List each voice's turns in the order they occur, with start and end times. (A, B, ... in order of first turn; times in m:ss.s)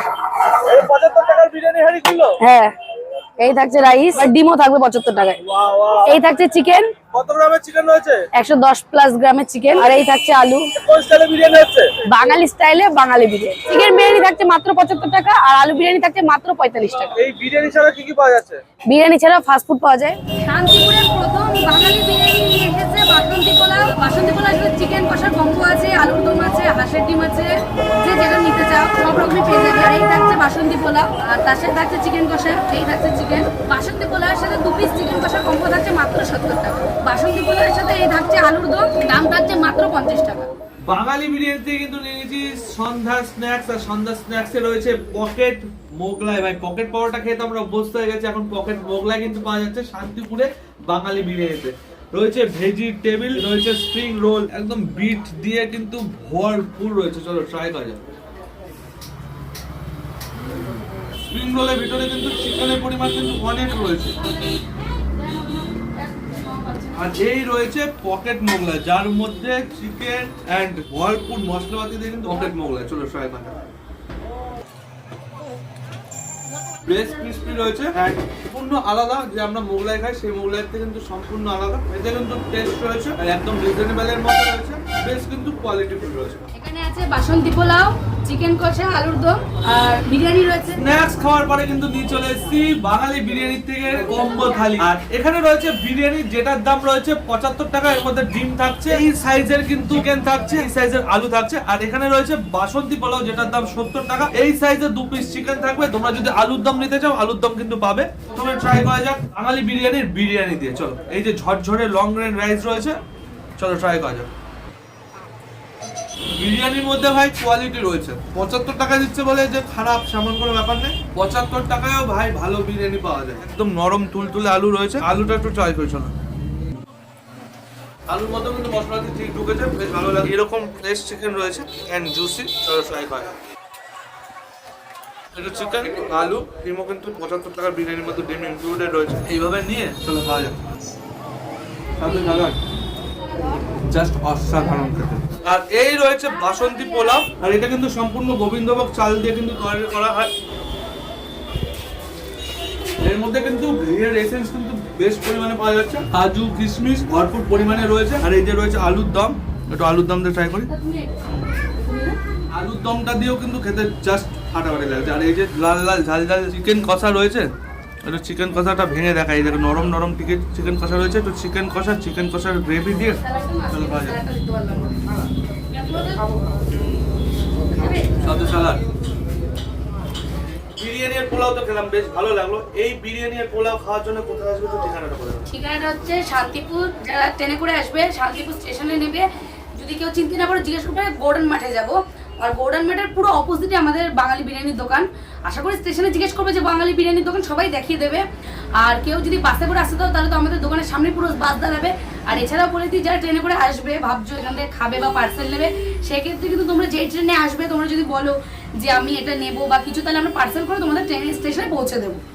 0:00.4-0:02.3 A
0:01.4-0:02.2 B
0:02.4-0:02.7 C
0:03.4-0:05.4 C
0:03.4-0:04.3 D
0:05.5-0:06.2 A
0:06.0-0:06.8 C
0:07.1-0:08.1 A
0:07.2-0:08.2 B
0:08.4-0:10.2 D
0:08.4-0:10.6 C
0:10.8-0:11.8 A
0:10.9-0:11.9 B
0:12.1-0:17.1 C
0:13.2-0:13.7 D
0:16.6-0:17.0 D
0:17.2-0:18.6 B
0:18.9-0:20.2 C
0:20.4-0:40.5 D
0:40.9-0:58.0 B
1:01.3-1:04.2 B
1:04.4-1:07.1 D
1:06.9-1:13.6 B
1:16.8-1:26.4 B
1:26.5-1:30.8 D
1:30.8-1:53.0 B
1:53.6-1:54.3 B
1:56.4-2:06.1 B
2:08.1-2:13.3 B
2:15.3-2:20.6 B
2:22.0-2:22.6 B
2:23.9-2:30.3 B
2:33.0-2:40.7 B
2:40.7-2:42.2 D
2:42.5-2:47.5 B
2:48.0-2:53.2 B
2:53.1-2:55.0 D
2:53.7-2:54.2 B
2:55.7-2:56.2 D
2:57.7-2:58.1 D
2:58.2-2:58.8 B
3:00.8-3:05.4 B
3:05.5-3:18.2 D
3:18.8-3:32.2 D